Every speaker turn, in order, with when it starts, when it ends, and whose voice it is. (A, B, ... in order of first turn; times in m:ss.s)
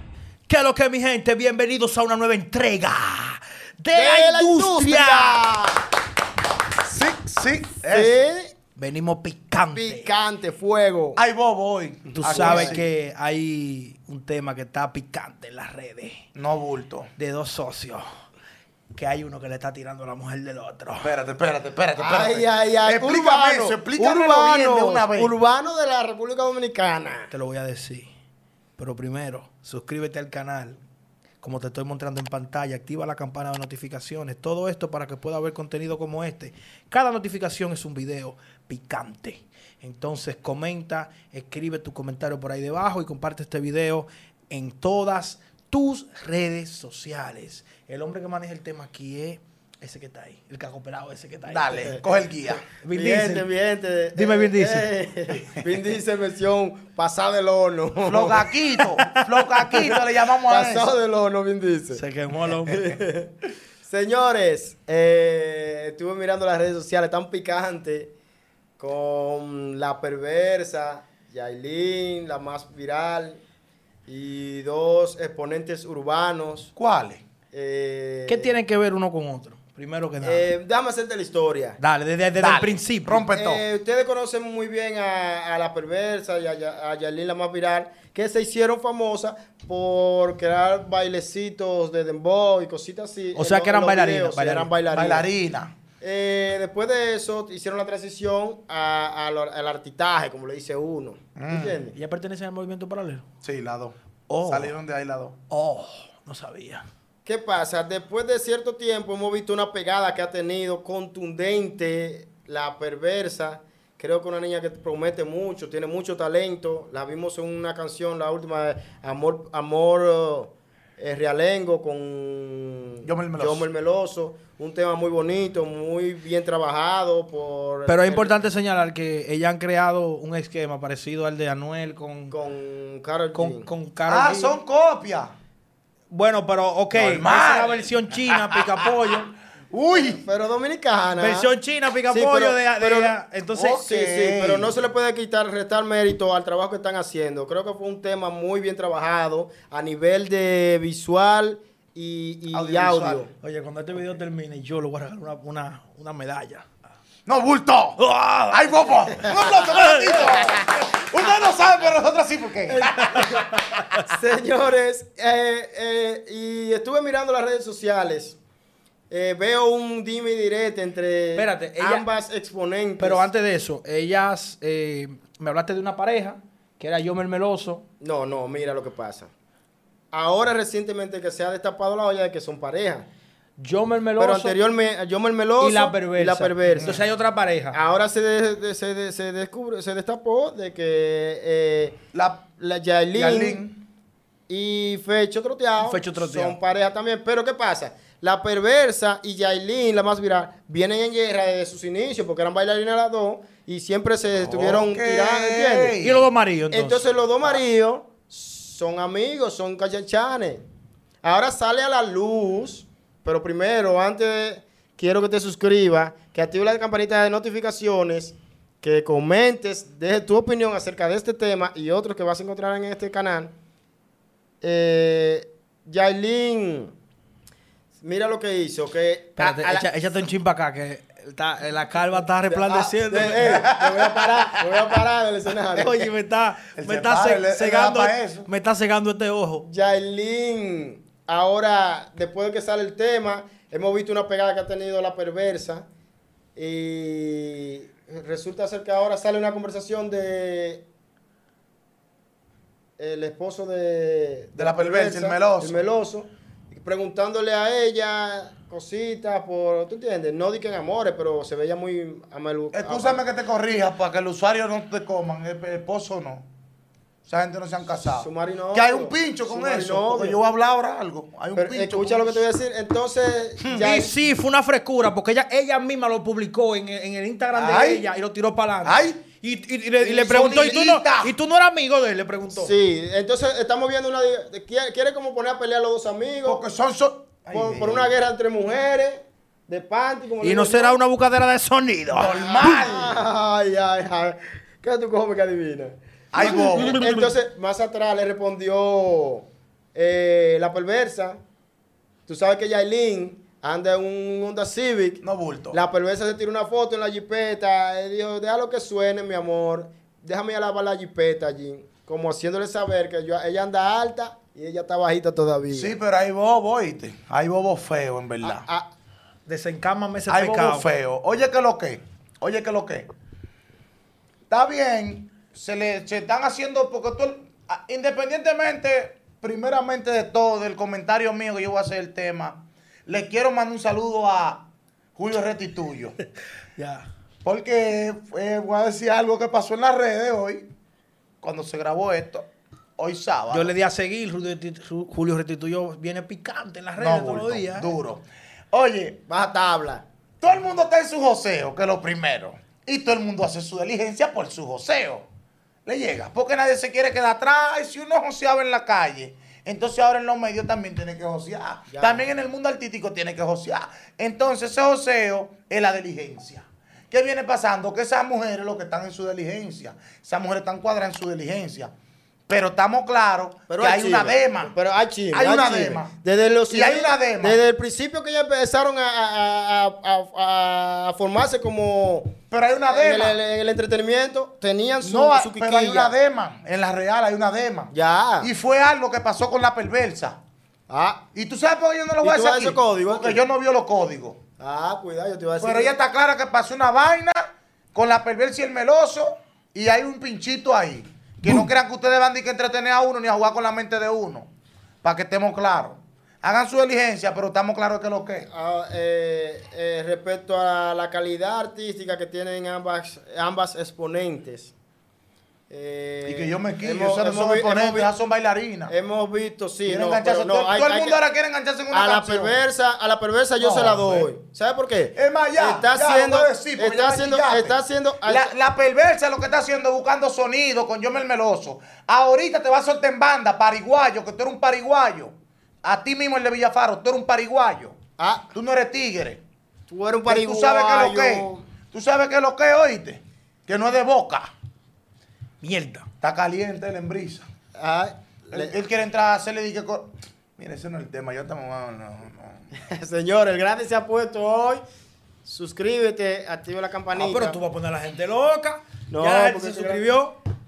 0:00.5-0:05.4 A
0:03.9-0:05.8 B
0:06.9-0:08.2 C
0:07.9-0:08.5 B
0:08.8-0:10.1 A
0:09.7-0:11.2 B
0:11.2-0:12.8 C
0:12.1-0:16.2 A
0:12.2-0:12.8 B
0:16.4-0:17.1 C
0:17.2-0:18.0 A
0:18.9-0:21.1 A
0:21.0-0:25.3 C
0:22.0-0:27.3 B
0:27.3-0:28.1 A
0:28.8-0:30.8 A
0:31.4-0:52.0 A
0:51.5-0:52.7 C
0:52.7-0:59.0 B
0:52.7-0:53.5 A
0:54.1-0:54.9 A
0:58.0-1:00.9 C
0:59.0-0:59.6 A
0:59.7-1:02.0 B
1:01.9-1:02.9 A
1:02.6-1:03.3 B
1:03.8-1:08.1 B
1:08.8-1:13.4 B
1:14.1-1:16.7 B
1:16.8-1:17.2 C
1:17.5-1:18.6 B
1:18.3-1:20.5 A
1:20.2-1:21.8 B
1:21.8-1:23.2 A
1:22.4-1:23.6 C
1:23.2-1:35.2 B
1:33.3-1:34.7 A
1:34.9-1:35.8 C
1:36.0-1:41.9 B
1:41.4-1:41.8 C
1:41.9-1:43.2 A
1:43.4-1:44.0 C
1:44.3-1:44.7 A
1:44.5-1:45.4 C
1:45.5-1:46.8 A
1:47.2-2:08.4 B
2:03.0-2:03.7 C
2:07.9-2:12.4 A
2:12.3-2:13.7 B
2:13.3-2:14.6 A
2:14.1-2:15.3 C
2:16.1-2:19.3 A
2:16.9-2:18.9 C
2:19.7-2:20.2 C
2:19.9-2:21.5 B
2:21.2-2:23.8 A
2:22.1-2:23.2 B
2:23.5-2:24.8 C
2:23.8-2:33.3 B
2:32.5-2:33.2 C
2:33.4-2:36.7 A
2:37.2-2:38.0 C
2:38.0-2:39.0 A
2:38.5-2:44.1 C
2:39.7-2:40.3 A
2:42.7-2:43.4 B
2:44.0-2:48.4 B
2:49.1-2:53.3 B
2:51.3-2:52.1 A
2:53.0-2:57.8 A
2:58.0-2:59.3 B
3:00.1-3:03.1 B
3:03.6-3:04.6 A
3:04.2-3:07.0 B
3:05.6-3:07.8 A
3:06.8-3:07.1 C
3:07.7-3:12.0 B
3:12.1-3:12.5 C
3:12.6-3:13.6 B
3:13.1-3:13.8 C
3:14.5-3:26.0 B
3:15.8-3:16.6 A
3:24.4-3:26.2 C
3:26.0-3:27.1 A
3:26.7-3:30.6 B
3:31.2-3:43.5 B
3:44.6-3:46.9 B
3:48.0-3:49.9 B
3:49.4-3:53.7 A
3:52.4-3:56.1 B
3:53.1-3:54.8 C
3:55.7-3:59.7 A
3:56.8-3:58.5 C
3:59.7-4:05.8 B
4:06.6-4:10.8 B
4:13.0-4:23.2 B
4:14.6-4:15.8 C
4:22.7-4:26.5 C
4:27.2-4:32.4 C
4:28.0-4:30.4 B
4:31.6-4:34.1 B
4:33.6-4:33.9 C
4:33.8-4:42.7 A
4:37.5-4:38.1 C
4:38.8-4:39.2 C
4:40.0-4:41.3 C
4:42.6-4:46.6 B
4:46.4-4:48.1 C
4:47.5-4:51.0 B
4:50.4-4:52.8 A
4:52.1-4:53.2 C
4:52.2-5:01.4 B
4:56.3-4:57.0 C
4:56.4-4:57.3 A
5:02.3-5:15.9 B
5:05.2-5:05.8 C
5:15.7-5:18.6 C
5:18.4-5:18.9 B
5:19.4-5:20.9 A
5:20.3-5:23.1 C
5:24.5-5:36.2 C
5:36.8-5:37.1 A
5:37.4-5:40.7 C
5:41.4-5:43.7 C
5:43.5-5:47.9 A
5:47.0-5:49.3 C
5:49.3-5:50.0 B
5:50.4-5:55.2 C
5:55.9-6:11.9 C
6:01.9-6:02.3 B
6:12.5-6:14.7 C
6:13.7-6:22.4 B
6:15.3-6:16.1 C
6:16.7-6:17.6 C
6:22.5-6:23.4 C
6:22.9-6:26.1 B
6:25.0-6:30.4 C
6:27.9-6:28.5 B
6:30.9-6:31.2 B
6:31.3-6:34.4 C
6:32.2-6:33.4 B
6:34.6-6:35.9 B
6:35.6-6:37.4 C
6:37.9-6:44.5 C
6:45.0-6:48.5 C
6:48.5-6:54.7 B
6:55.7-6:58.1 B
6:56.2-6:58.9 C
6:58.9-7:01.2 B
6:59.9-7:02.6 C
7:01.9-7:08.5 B
7:03.6-7:04.3 C
7:05.1-7:18.0 C
7:18.2-7:18.5 B
7:18.5-7:19.4 C
7:19.9-7:21.7 B
7:20.2-7:24.5 C
7:25.6-7:26.1 A
7:26.2-7:27.5 C
7:27.8-7:28.8 B
7:28.5-7:32.7 C
7:32.8-7:34.8 B
7:35.4-7:37.6 B
7:37.1-7:40.4 A
7:39.1-7:40.1 B